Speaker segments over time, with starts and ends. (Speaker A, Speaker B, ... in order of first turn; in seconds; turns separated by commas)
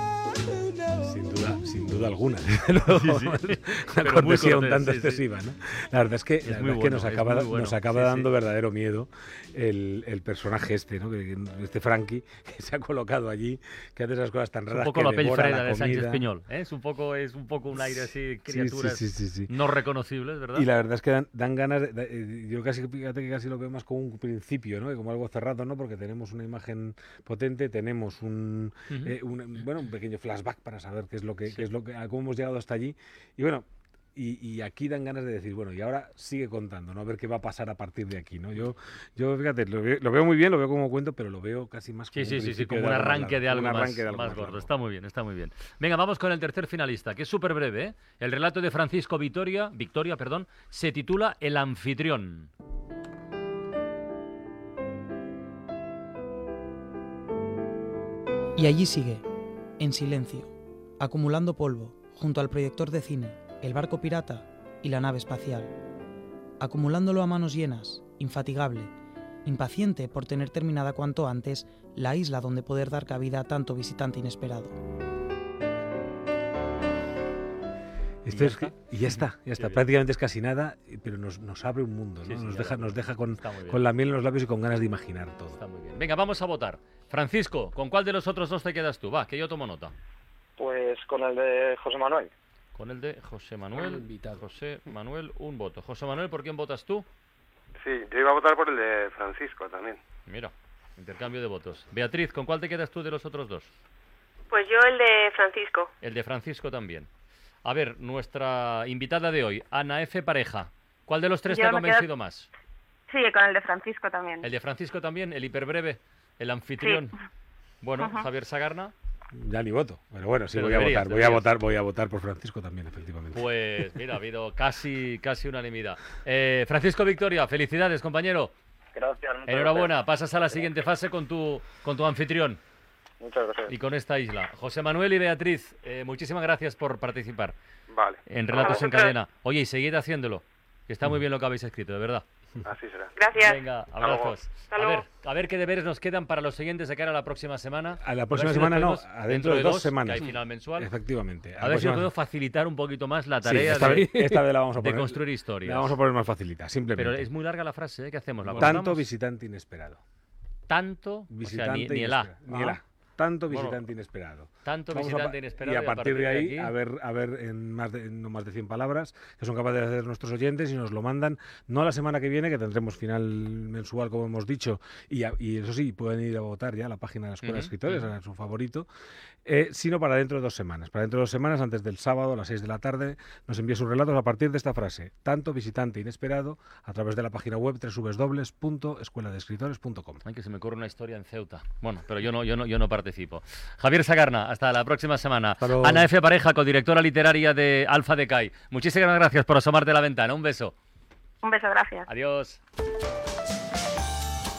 Speaker A: 0.9-16.2, Speaker B: 2.9-5.2, Speaker B: 6.4-8.3, Speaker B: 14.7-20.7, Speaker A: 17.8-19.5, Speaker A: 20.5-44.7, Speaker B: 28.9-29.1, Speaker B: 42.1-52.5, Speaker C: 58.6-59.2, Speaker C: 59.8-65.7, Speaker C: 66.6-68.9, Speaker C: 69.5-74.7, Speaker A: 78.2-85.6, Speaker B: 78.3-79.8, Speaker B: 82.2-83.8, Speaker B: 85.5-89.9, Speaker D: 90.6-92.3, Speaker B: 92.7-97.0, Speaker E: 97.8-100.0, Speaker B: 100.3-103.7, Speaker F: 104.5-105.9, Speaker B: 106.0-107.1, Speaker B: 107.6-112.5, Speaker G: 111.5-112.1, Speaker G: 113.1-114.5, Speaker B: 114.4-117.1, Speaker G: 116.8-117.1, Speaker B: 117.8-118.9, Speaker G: 118.0-118.3, Speaker A: 119.3-123.5, Speaker B: 120.5-121.5, Speaker B: 123.3-128.5, Speaker D: 128.9-129.9, Speaker B: 129.4-132.6, Speaker D: 133.2-133.7, Speaker B: 133.7-137.5, Speaker E: 137.9-138.8, Speaker B: 138.3-142.2, Speaker F: 138.6-139.1, Speaker E: 142.6-143.1, Speaker F: 143.2-143.6, Speaker B: 143.4-150.9, Speaker E: 144.0-144.4, Speaker F: 144.7-145.0, Speaker A: 148.0-152.1, Speaker B: 151.6-154.1, Speaker A: 153.4-157.3, Speaker B: 154.8-156.0, Speaker B: 156.9-159.1, Speaker A: 158.6-160.0, Speaker B: 160.7-162.3, Speaker A: 161.3-178.9, Speaker B: 163.5-163.8, Speaker B: 164.6-166.7, Speaker B: 177.4-178.1, Speaker A: 179.4-190.2, Speaker B: 190.2-200.7, Speaker A: 195.6-196.1, Speaker G: 201.4-202.1, Speaker B: 202.1-202.6